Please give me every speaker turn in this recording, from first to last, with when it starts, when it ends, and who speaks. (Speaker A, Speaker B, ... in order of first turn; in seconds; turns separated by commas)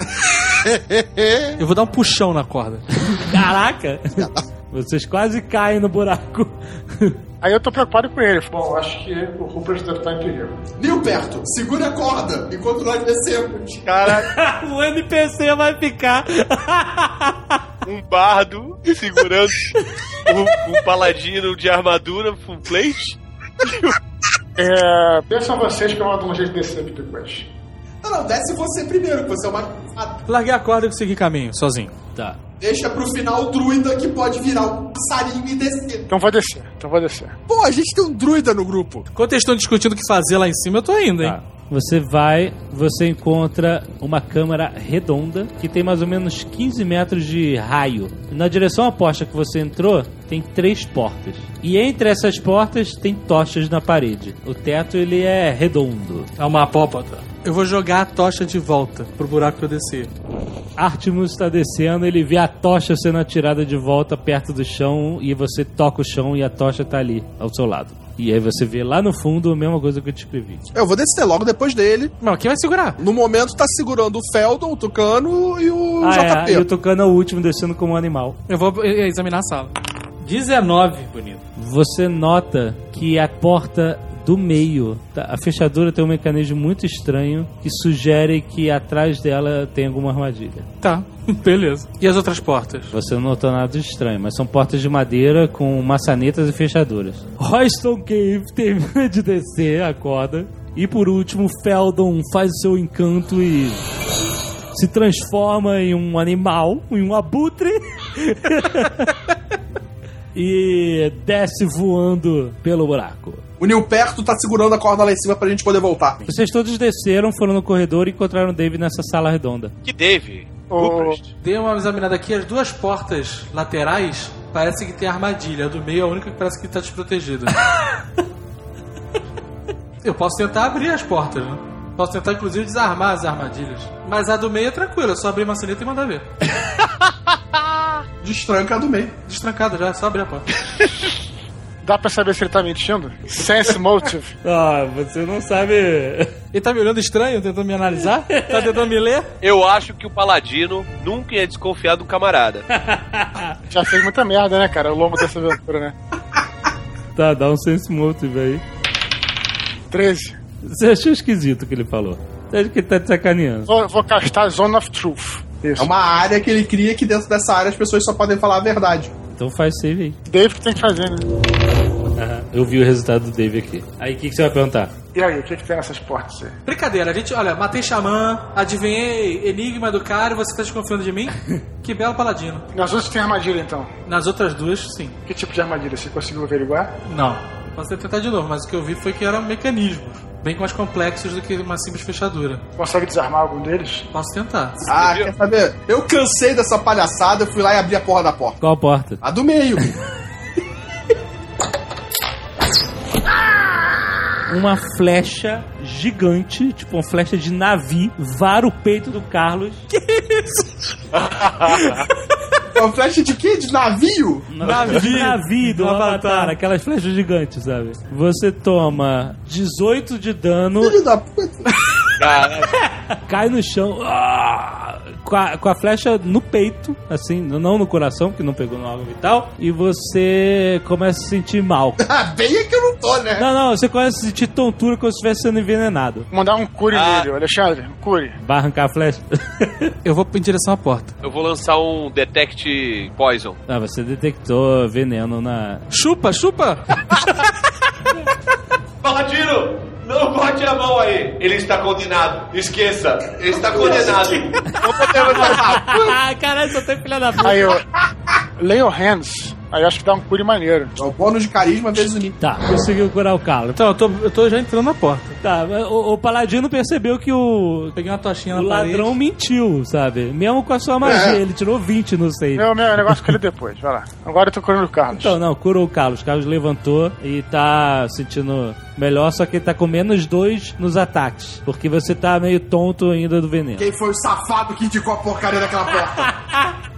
Speaker A: 0.2-1.6, Speaker B: 1.6-2.8, Speaker C: 3.1-7.2, Speaker A: 4.2-4.4, Speaker D: 7.4-10.6, Speaker A: 10.8-13.8, Speaker E: 13.8-14.3, Speaker C: 14.2-17.6, Speaker E: 17.8-19.7, Speaker E: 20.3-23.2, Speaker E: 23.7-23.9, Speaker D: 24.6-27.5, Speaker A: 28.0-30.2, Speaker B: 30.3-31.9, Speaker A: 32.6-36.0, Speaker D: 36.1-37.4, Speaker A: 37.5-39.1, Speaker B: 39.1-41.4, Speaker C: 41.2-56.3, Speaker B: 56.4-60.1, Speaker C: 60.8-70.6, Speaker A: 70.7-72.1, Speaker B: 72.2-73.0, Speaker A: 73.0-76.7, Speaker C: 76.0-78.4, Speaker B: 78.5-79.7, Speaker B: 80.2-81.4, Speaker C: 81.6-90.7, Speaker B: 90.8-92.9, Speaker C: 92.9-103.8, Speaker C: 104.7-109.1, Speaker C: 110.3-113.4, Speaker A: 113.6-116.3, Speaker C: 116.2-119.7, Speaker E: 119.8-121.2, Speaker D: 120.7-121.2, Speaker B: 121.4-127.6, Speaker B: 130.0-136.2, Speaker A: 138.2-139.1, Speaker B: 139.3-140.5, Speaker D: 141.8-144.3, Speaker C: 144.4-146.3, Speaker B: 146.5-149.3, Speaker C: 148.3-148.6, Speaker E: 149.4-152.6, Speaker C: 152.7-153.5, Speaker D: 153.7-155.9, Speaker C: 157.1-158.6, Speaker D: 159.9-160.4, Speaker C: 160.6-163.7, Speaker D: 163.7-165.9, Speaker A: 165.8-169.1, Speaker C: 169.3-170.2, Speaker D: 170.3-171.2, Speaker C: 172.2-174.9, Speaker D: 175.1-176.5, Speaker B: 176.7-182.7, Speaker D: 182.7-183.9, Speaker B: 184.1-185.2, Speaker D: 185.3-186.9, Speaker B: 187.1-192.6, Speaker D: 192.8-194.0, Speaker B: 194.1-194.8, Speaker E: 194.9-195.3, Speaker A: 194.9-198.6, Speaker C: 198.6-199.2, Speaker A: 199.2-199.9, Speaker C: 204.5-209.8, Speaker B: 209.9-210.9, Speaker E: 211.1-212.0, Speaker A: 212.7-214.7, Speaker C: 214.5-221.0, Speaker B: 214.6-216.5, Speaker A: 220.8-221.7, Speaker E: 222.2-222.7, Speaker C: 223.1-232.0, Speaker A: 232.0-233.5, Speaker C: 233.4-236.3, Speaker D: 236.3-238.4, Speaker E: 236.9-237.3, Speaker C: 238.4-239.9, Speaker B: 240.0-241.1, Speaker E: 241.2-243.6, Speaker C: 243.7-245.8, Speaker B: 245.9-246.8, Speaker E: 249.0-255.7, Speaker A: 255.2-256.1, Speaker C: 255.3-257.8, Speaker D: 257.4-257.8, Speaker D: 258.6-260.9, Speaker A: 261.0-262.4, Speaker C: 262.4-263.8, Speaker B: 263.8-265.4, Speaker C: 265.4-268.0, Speaker B: 267.9-269.1, Speaker C: 268.5-273.2, Speaker A: 271.0-271.4, Speaker D: 272.6-275.4, Speaker C: 275.1-283.9, Speaker A: 283.8-286.3, Speaker C: 286.2-286.7